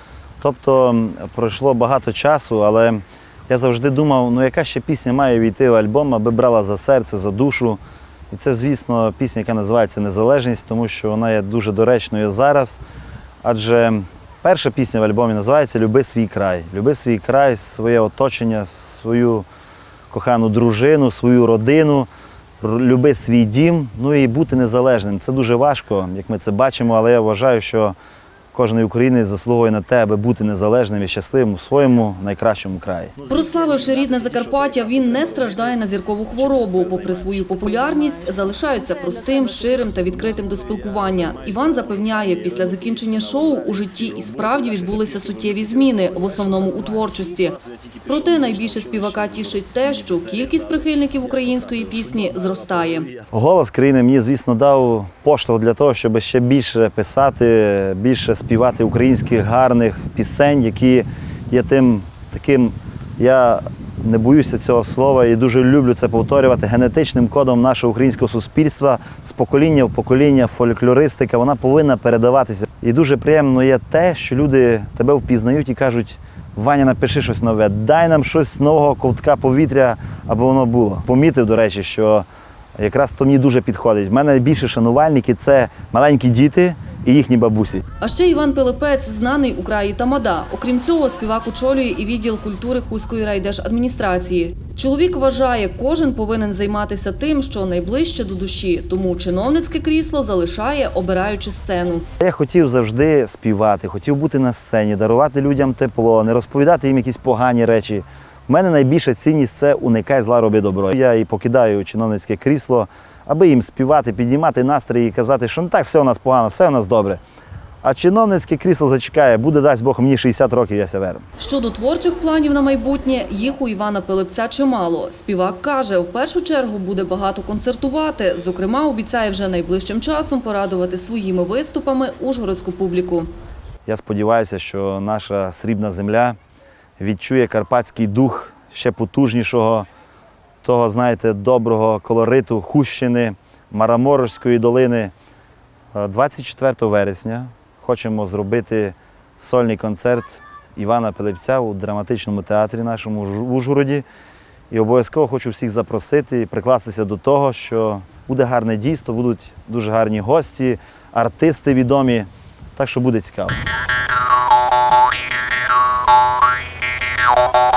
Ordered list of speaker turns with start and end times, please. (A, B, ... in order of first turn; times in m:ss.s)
0:00.4-0:12.8 A
0:13.4-0:19.4 A
0:20.1-0:22.1 A
0:22.6-0:28.0 A
0:28.5-0:38.3 A
0:33.3-0:53.1 B
0:39.8-1:22.2 A
1:22.8-1:27.8 A
1:28.0-1:42.0 B
1:42.2-1:57.2 A
1:57.8-2:01.2 A
2:01.4-2:13.3 B
2:13.8-2:16.4 A
2:17.0-2:19.9 A
2:20.6-2:25.1 A
2:25.9-2:34.0 A
2:34.7-2:43.6 A